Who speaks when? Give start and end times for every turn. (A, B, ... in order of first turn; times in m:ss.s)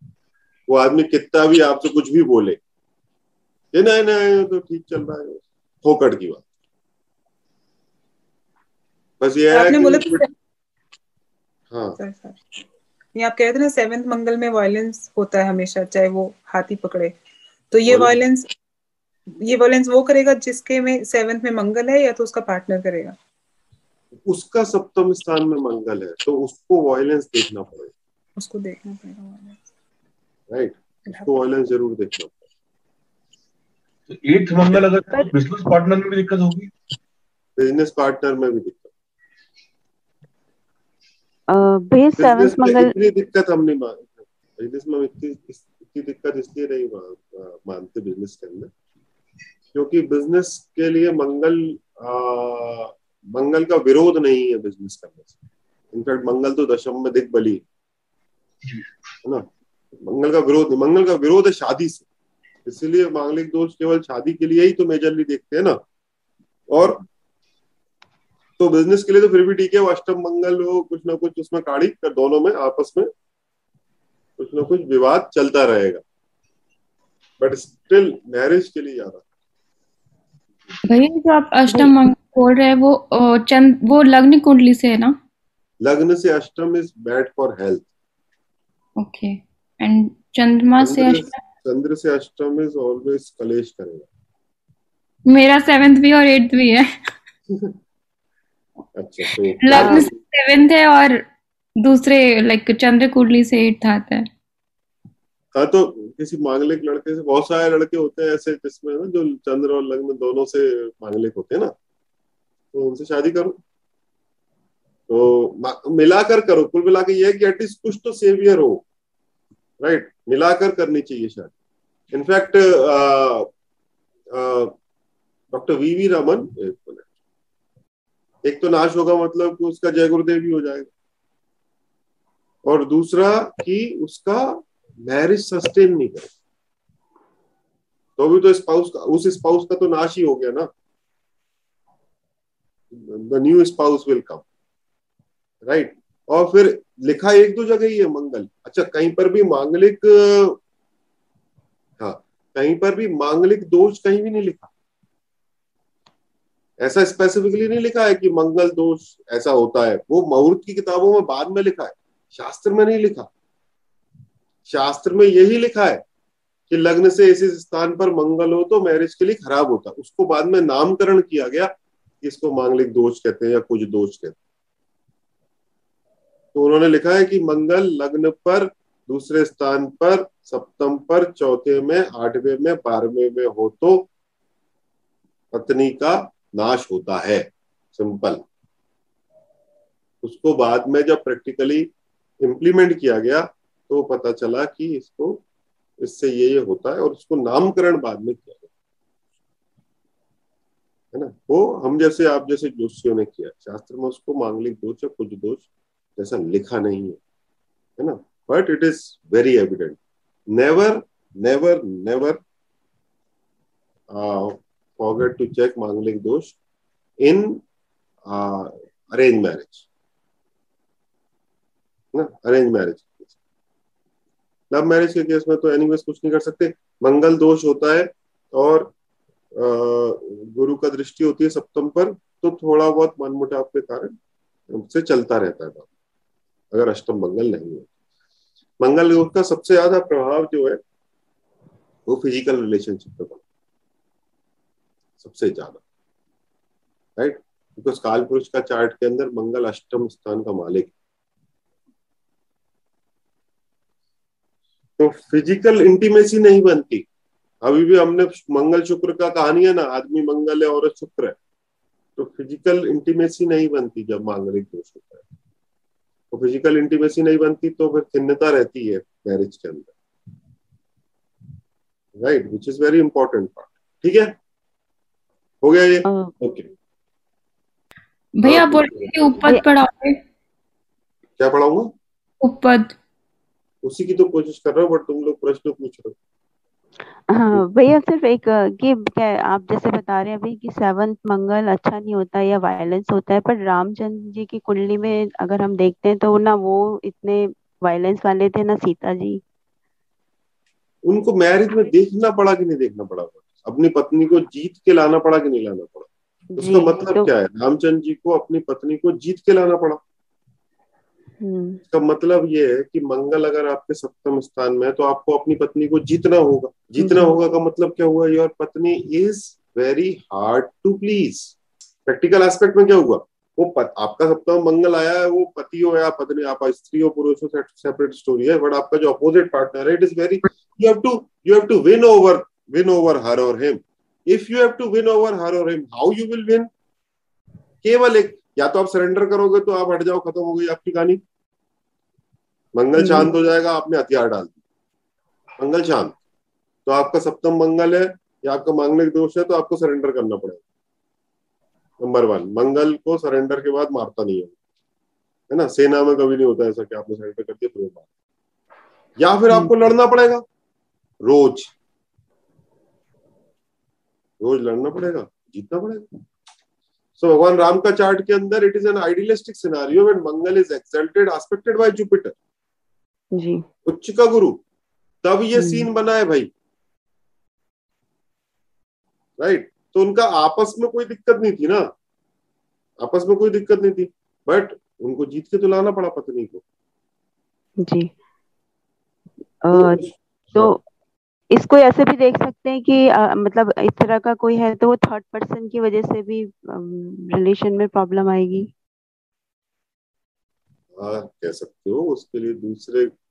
0:00.7-0:02.6 A
0:03.7-0:06.4 A
0:09.2-0:10.2 A
0:09.5-0:10.3 B
0:11.7-0:12.0 A
0:12.0-0:12.4 B
0:13.1-0:17.1 B
0:17.7-0:18.5 B
0:17.9-0:18.2 A
0:19.4-0:23.2 B
0:24.3-0:27.9 A
0:28.4-0:29.6 B
0:30.5-0:32.4 A
0:31.1-0:31.3 B
0:34.1-0:36.7 C
0:37.6-0:38.9 A
0:41.5-0:42.9 D
0:42.2-0:48.7 A
0:49.7-0:55.3 A
0:55.9-0:57.6 A
1:00.0-1:02.0 A
1:02.6-1:05.8 A
1:06.7-1:07.0 A
1:08.6-1:13.1 A
1:14.4-1:16.0 A
1:17.4-1:19.2 A
1:20.8-1:25.1 E
1:25.8-1:27.9 A
1:29.0-1:31.3 E
1:30.8-1:34.1 A
1:35.3-1:36.8 E
1:39.0-1:40.0 A
1:39.6-1:41.2 E
1:39.8-1:40.1 D
1:41.8-1:44.2 E
1:45.5-1:51.7 A
1:52.7-1:53.6 A
1:55.1-1:58.8 A
1:59.8-2:01.5 A
2:02.1-2:03.5 A
2:04.3-2:04.7 A
2:05.5-2:07.1 A
2:08.4-2:10.9 A
2:12.6-2:16.3 A
2:18.2-2:20.7 A
2:22.9-2:24.4 A
2:25.6-2:30.6 A
2:32.0-2:34.7 A
2:36.8-2:43.3 A
2:44.7-2:46.0 A
2:46.7-2:51.7 A
2:52.2-2:54.4 A
2:56.5-3:04.1 A
3:05.5-3:08.4 A
3:10.2-3:11.9 A
3:12.4-3:15.4 A
3:16.0-3:18.7 A
3:21.1-3:25.6 A
3:26.2-3:27.2 A
3:28.0-3:30.0 A
3:30.5-3:32.4 A
3:34.1-3:36.6 A
3:37.2-3:37.6 A
3:38.3-3:39.8 A
3:42.1-3:43.3 A
3:44.7-3:48.9 A
3:49.6-3:54.1 A
3:54.7-3:55.9 A
3:56.7-3:57.9 A
3:58.8-4:00.8 A
4:02.1-4:03.4 A
4:05.2-4:05.8 A
4:07.2-4:10.9 A
4:15.0-4:17.0 A
4:17.6-4:21.4 A
4:22.2-4:25.2 A
4:26.3-4:29.9 A
4:32.2-4:34.3 A
4:35.6-4:36.6 A
4:36.1-4:36.4 D
4:38.4-4:40.2 E
4:38.4-4:39.5 A
4:41.4-4:41.9 A
4:42.4-4:42.9 E
4:43.8-4:46.1 A
4:47.3-4:59.4 D
5:01.1-5:10.0 A
5:06.5-5:07.3 D
5:11.4-5:11.8 D
5:11.9-5:21.5 A
5:17.0-5:17.3 D
5:22.1-5:36.7 A
5:37.8-5:41.2 A
5:42.8-5:44.6 A
5:43.0-5:43.3 D
5:45.6-5:46.2 A
5:46.8-5:50.6 A
5:52.0-5:54.5 A
5:55.5-5:58.0 A
5:59.2-6:00.4 A
6:01.2-6:01.7 A
6:04.4-6:06.0 A
6:07.2-6:12.3 A
6:13.4-6:13.6 D
6:13.8-6:14.6 A
6:15.2-6:16.5 A
6:15.6-6:15.9 D
6:19.4-6:21.8 A
6:23.0-6:26.6 A
6:27.8-6:28.1 D
6:29.6-6:30.8 D
6:29.7-6:30.7 A
6:31.5-6:38.7 D
6:41.0-6:43.1 A